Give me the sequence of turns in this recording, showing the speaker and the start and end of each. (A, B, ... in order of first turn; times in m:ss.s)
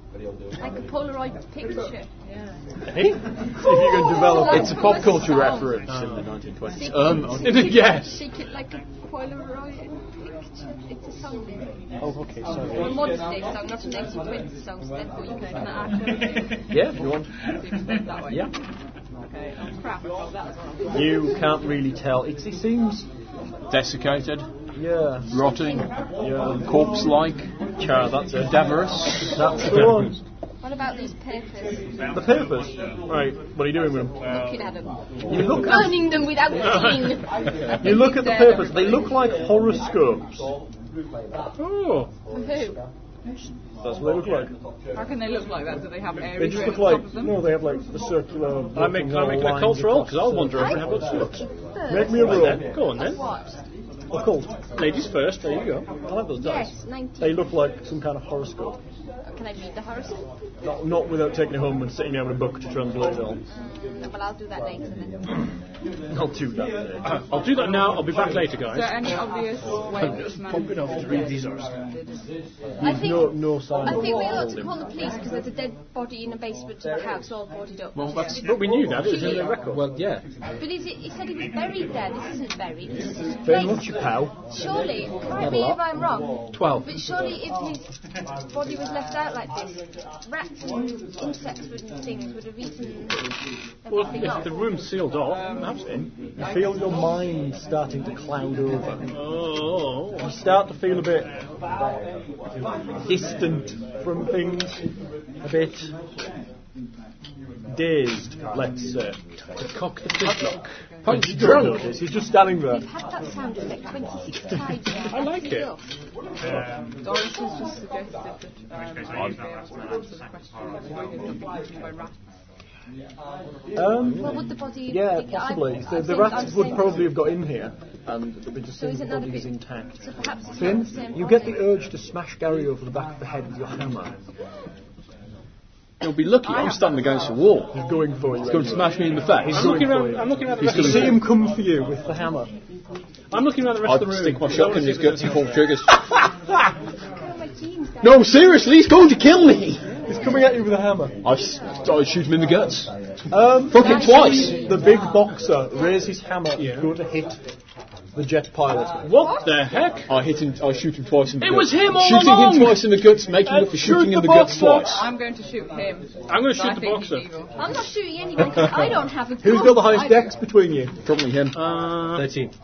0:00.6-0:02.1 A
0:02.2-0:02.5 B
0:03.6-0:05.2 C
0:03.6-0:05.8 A
0:04.4-0:07.8 D
0:05.9-0:06.2 E
0:06.6-0:11.8 A
0:07.4-0:08.2 E
0:12.0-0:12.6 E
0:12.0-0:12.9 C
0:12.7-0:15.8 A
0:15.3-0:18.5 B
0:16.7-0:17.4 C
0:19.2-0:21.3 B
0:20.9-0:23.1 C
0:23.7-0:24.5 D
0:24.7-0:25.3 C
0:25.3-0:25.9 D
0:26.2-0:26.8 C
0:26.5-0:27.5 D
0:27.8-0:28.7 C
0:28.3-0:29.5 D
0:29.2-0:30.2 C
0:30.6-0:31.9 A
0:32.1-0:34.2 C
0:34.2-0:39.1 A
0:35.3-0:36.1 C
0:36.6-0:37.2 E
0:37.8-0:40.4 C
0:41.6-0:42.1 E
0:42.3-0:42.8 A
0:43.8-0:44.5 C
0:44.9-0:47.6 B
0:46.4-0:51.1 C
0:48.7-0:51.3 E
0:50.5-0:53.6 A
0:51.9-0:52.7 C
0:52.2-0:53.2 E
0:54.1-0:54.6 C
0:54.7-0:55.9 E
0:56.0-0:58.8 C
0:56.4-0:57.5 A
0:59.3-1:00.3 A
1:00.6-1:03.4 C
1:03.6-1:05.5 A
1:06.1-1:07.2 C
1:07.1-1:09.1 E
1:08.6-1:12.2 B
1:10.0-1:11.7 E
1:12.8-1:14.7 C
1:12.8-1:19.6 A
1:17.9-1:18.7 D
1:18.4-1:19.8 E
1:19.6-1:20.2 F
1:20.6-1:27.8 A
1:23.4-1:24.4 C
1:25.4-1:25.8 F
1:26.5-1:27.2 F
1:28.5-1:33.3 A
1:33.8-1:34.7 A
1:33.9-1:36.1 E
1:36.4-1:39.0 C
1:39.1-1:40.4 E
1:40.2-1:41.3 C
1:43.0-1:44.8 C
1:45.4-1:45.9 C
1:47.7-1:49.2 C
1:49.6-1:51.9 F
1:50.2-1:50.6 E
1:51.0-1:52.8 C
1:52.5-1:55.8 A
1:55.1-1:55.7 E
1:57.0-2:02.2 B
2:03.7-2:10.0 C
2:04.1-2:07.2 A
2:08.7-2:11.7 A
2:10.6-2:14.2 C
2:16.0-2:17.8 D
2:17.7-2:22.5 C
2:18.4-2:19.8 D
2:19.5-2:21.3 E
2:20.6-2:21.2 D
2:23.3-2:25.6 E
2:23.8-2:26.0 D
2:27.2-2:28.8 A
2:28.0-2:29.8 D
2:30.0-2:31.1 C
2:31.2-2:32.9 D
2:33.3-2:37.4 C
2:33.7-2:34.6 D
2:33.7-2:35.8 A
2:36.6-2:36.9 E
2:38.1-2:39.1 C
2:39.0-2:40.1 E
2:39.1-2:39.9 A
2:40.1-2:45.1 D
2:41.4-2:43.8 E
2:43.7-2:44.8 C
2:44.6-2:47.6 B
2:46.3-2:47.3 E
2:47.6-2:50.4 A
2:49.4-2:50.9 C
2:51.0-2:51.6 D
2:51.5-2:52.3 E
2:52.1-2:52.5 F